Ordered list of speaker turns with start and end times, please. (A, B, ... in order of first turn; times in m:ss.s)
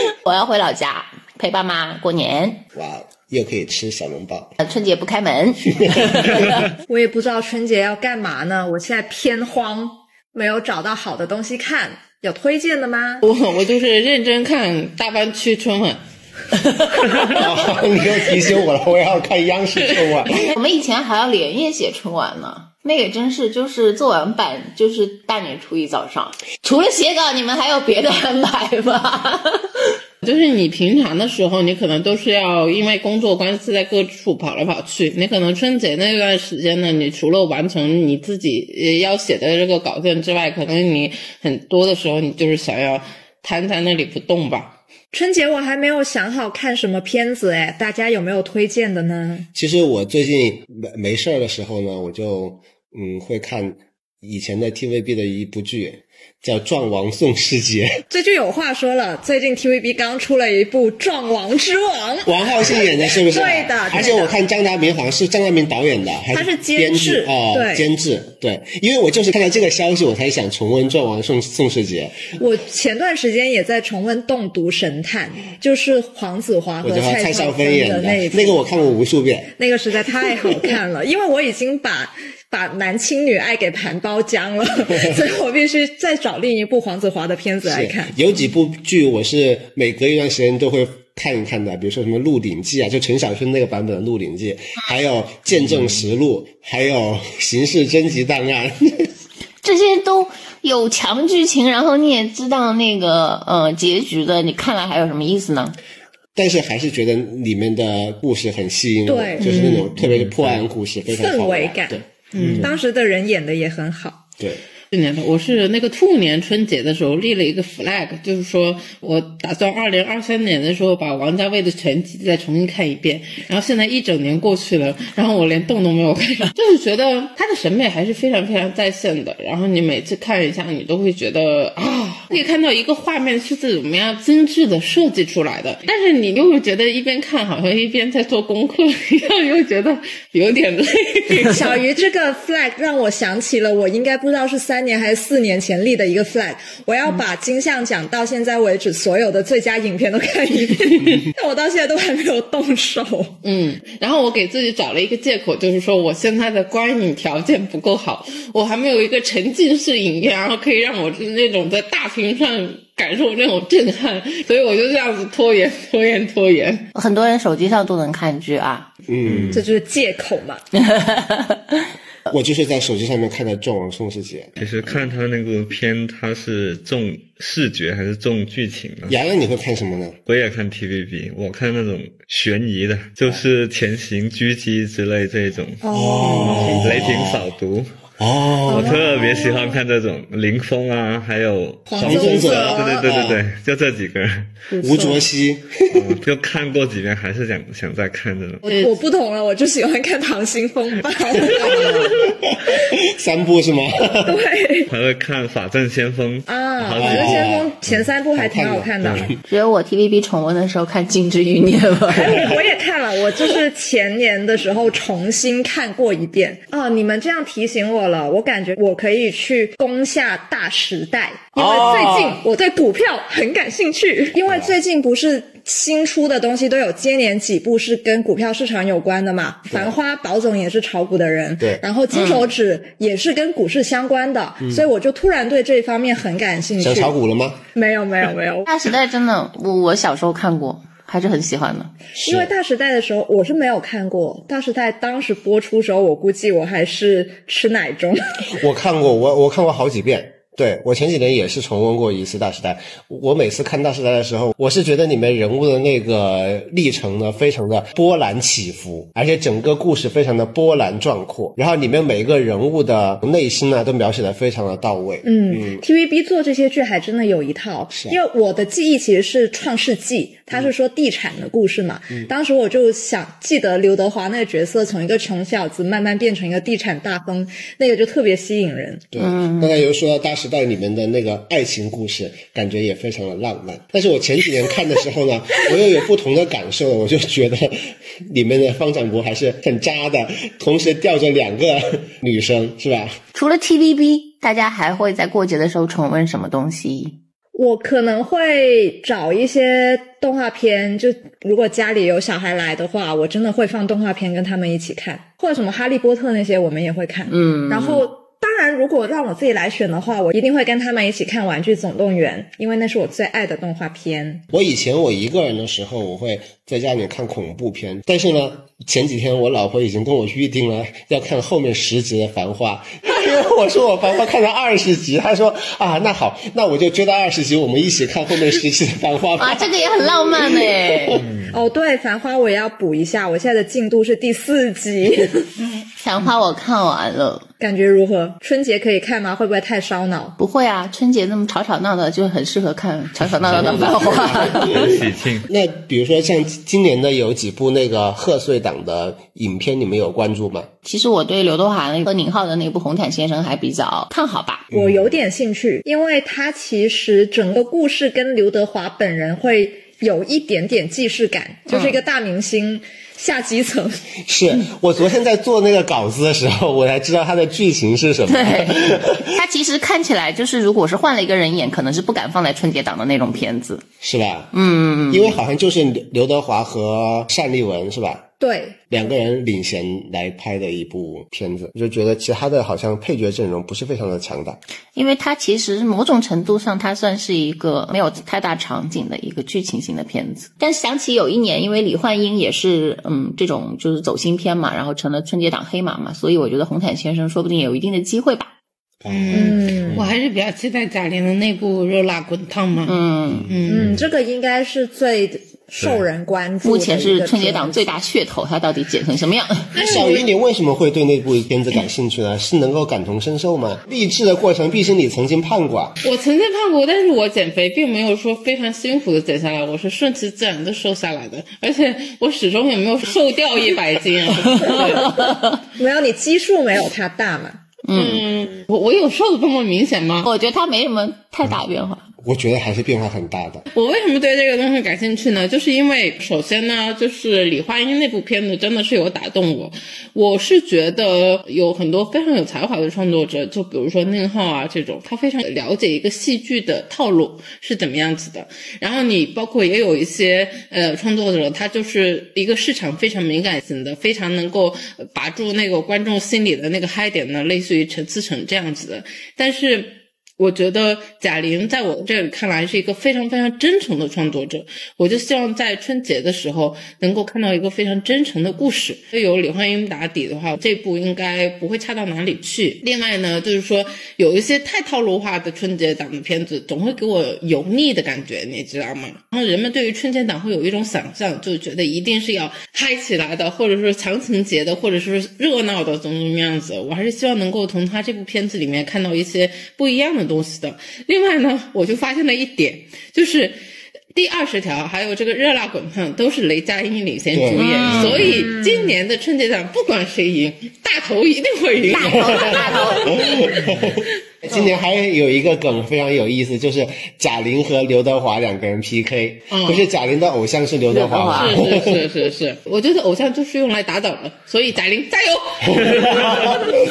0:00.2-0:02.6 A
0:02.7-0:04.5 B
0:04.6-0:06.5 A
0:05.7-0:06.4 B
0:06.8-0:13.2 C
0:13.2-0:16.0 D
0:17.3-0:20.5 B
0:19.8-0:20.3 D
0:20.3-0:29.6 A
0:30.2-0:44.8 D
0:45.1-0:49.5 C
0:49.5-0:58.0 B
0:58.1-1:04.4 C
1:02.2-1:12.3 B
1:06.3-1:07.9 C
1:12.4-1:18.6 C
1:16.8-1:19.5 B
1:19.6-1:28.1 C
1:27.6-1:39.1 B
1:39.6-1:45.8 A
1:46.3-1:52.7 B
1:49.0-1:49.6 C
1:49.4-1:49.9 D
1:50.1-1:50.6 E
1:51.1-1:52.0 C
1:52.3-1:52.7 D
1:52.6-1:54.2 C
1:54.9-2:21.8 D
2:21.5-2:33.4 C
2:33.4-2:46.8 D
2:46.9-2:48.9 A
2:49.1-2:49.6 B
2:49.2-2:49.6 E
2:49.5-2:50.6 C
2:50.9-2:51.6 A
2:52.3-2:54.5 B
2:54.6-2:59.2 E
2:59.1-3:00.1 B
3:00.2-3:08.0 E
3:05.8-3:06.8 C
3:05.9-3:07.5 B
3:08.2-3:09.0 B
3:08.7-3:14.6 E
3:08.7-3:09.8 C
3:11.9-3:13.1 C
3:12.0-3:13.4 B
3:14.7-3:15.2 C
3:14.8-3:16.1 B
3:15.9-3:18.7 E
3:18.6-3:22.2 C
3:18.7-3:18.9 D
3:21.6-3:22.0 B
3:22.6-3:24.4 B
3:24.2-3:24.9 C
3:24.9-3:27.5 E
3:26.5-3:29.3 C
3:27.0-3:29.3 B
3:29.5-3:32.4 A
3:32.1-3:57.2 C
3:41.6-3:42.4 B
3:52.1-3:52.5 A
3:56.8-3:57.6 B
3:57.7-3:58.7 C
3:58.6-4:01.9 A
4:02.2-4:02.5 B
4:02.2-4:08.5 C
4:08.6-4:25.8 B
4:25.2-4:39.0 C
4:27.9-4:28.2 B
4:39.1-4:53.1 B
4:39.2-4:39.7 A
4:53.3-4:57.2 A
4:57.5-5:14.4 C
5:07.3-5:08.0 A
5:14.5-5:31.2 B
5:29.4-5:31.2 A
5:31.5-5:35.5 C
5:36.0-5:37.5 A
5:37.6-5:40.4 C
5:40.4-5:44.9 A
5:43.5-5:45.5 E
5:43.5-5:50.7 B
5:50.8-5:54.7 A
5:54.7-5:55.1 B
5:54.7-6:04.1 C
6:01.7-6:02.0 A
6:04.2-6:09.3 B
6:08.2-6:08.8 A
6:09.3-6:13.8 A
6:14.0-6:14.5 B
6:14.5-6:15.4 A
6:15.1-6:18.2 B
6:18.4-6:18.8 C
6:18.9-6:24.6 B
6:24.9-6:38.5 A
6:39.0-6:40.1 B
6:39.1-6:43.0 D
6:39.3-6:40.0 C
6:42.8-6:43.5 A
6:43.4-6:43.8 B
6:43.5-6:43.9 D
6:43.7-6:47.9 C
6:46.6-6:49.7 A
6:49.7-6:50.3 D
6:49.8-6:56.0 B
6:56.0-7:05.2 D
7:04.6-7:05.6 A
7:05.8-7:07.6 C
7:07.8-7:08.2 A
7:07.9-7:10.3 D
7:10.2-7:12.0 A
7:12.2-7:13.6 B
7:13.7-8:13.6 D
8:14.1-8:23.8 D
8:17.3-8:18.3 B
8:17.5-8:18.5 A
8:18.3-8:18.9 C
8:21.9-8:23.1 A
8:22.0-8:32.0 B
8:29.5-8:29.9 D
8:30.9-8:31.6 A
8:31.3-8:36.3 D
8:35.7-8:36.7 B